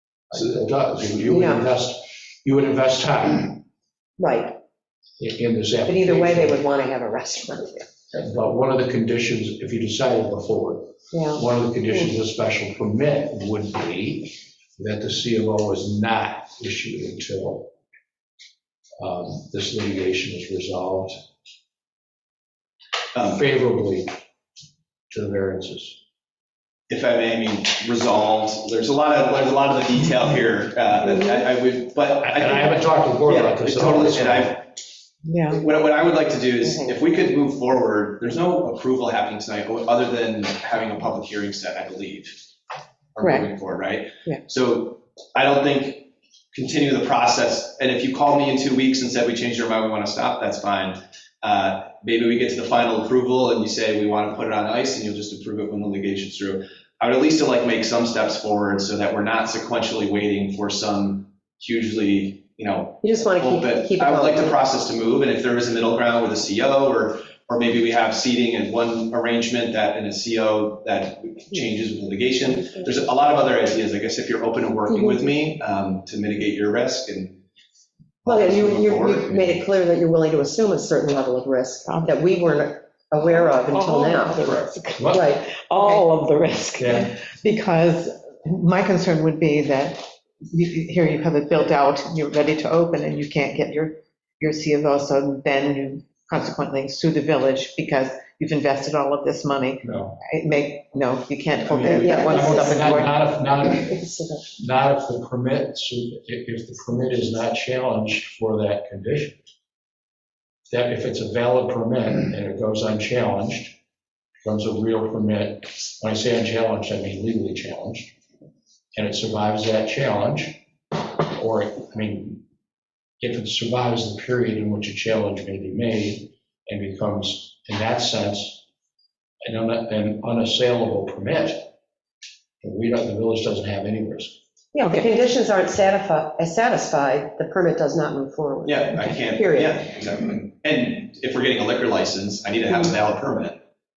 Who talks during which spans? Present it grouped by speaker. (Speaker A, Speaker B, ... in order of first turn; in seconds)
Speaker A: 0.3-3.6, 5.2-6.6, 8.1-17.7, 19.0-21.2, 23.2-24.1, 25.1-26.0, 32.2-34.6, 84.9-85.3, 86.7-87.1, 99.8-100.2, 101.7-104.0, 104.5-109.4, 110.7-113.8, 114.4-118.1, 118.9-120.6, 121.3-122.4, 123.2-128.6, 129.4-131.7, 132.6-134.4
Speaker B: 1.3-1.6, 4.2-4.5, 5.9-7.8, 11.1-12.1, 36.6-37.0, 63.0-64.6, 72.6-72.9, 74.9-75.2, 78.2-84.5, 85.1-86.0, 102.0-103.0, 103.8-104.5, 134.7-139.8
Speaker C: 23.1-23.4, 26.9-34.6, 35.5-42.4, 43.1-77.4, 78.2-79.6, 138.6-143.6
Speaker D: 35.2-35.6, 43.2-43.5, 81.9-82.2, 83.4-103.3